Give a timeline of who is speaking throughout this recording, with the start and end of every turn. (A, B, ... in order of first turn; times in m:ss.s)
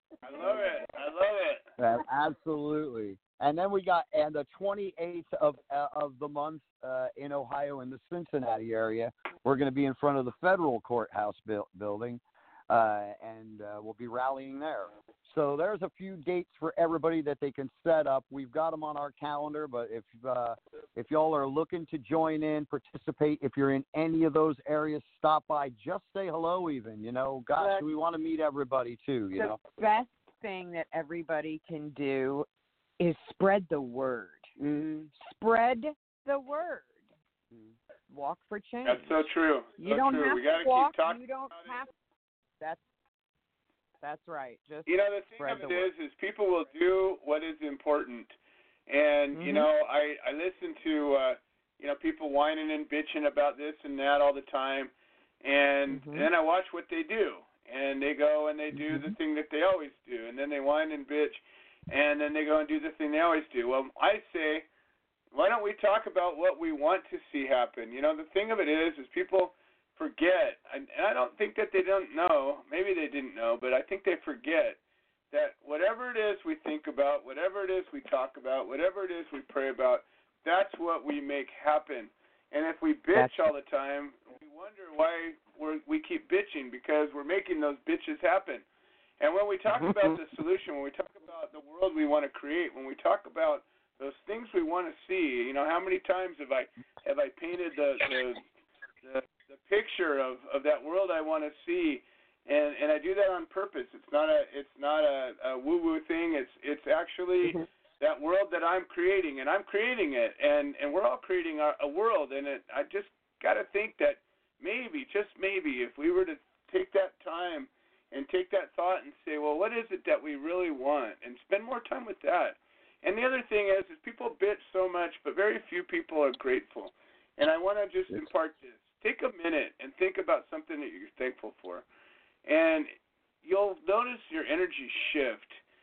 0:00.2-0:01.6 A
0:01.8-0:29.6 B
0:27.6-0:27.9 C
0:29.4-0:32.5 C
0:33.0-0:41.9 C
0:38.8-0:41.8 A
0:44.0-0:45.9 C
0:44.8-0:48.3 A
0:48.9-0:54.9 A
0:49.3-0:49.7 C
0:55.4-1:04.6 A
0:55.9-0:56.3 C
0:58.7-0:59.1 C
1:05.3-1:14.8 A
1:15.3-1:28.6 A
1:23.1-1:23.5 C
1:29.2-1:38.4 A
1:29.8-1:30.2 C
1:39.0-2:11.8 A
2:12.4-2:12.9 A
2:13.4-2:15.6 A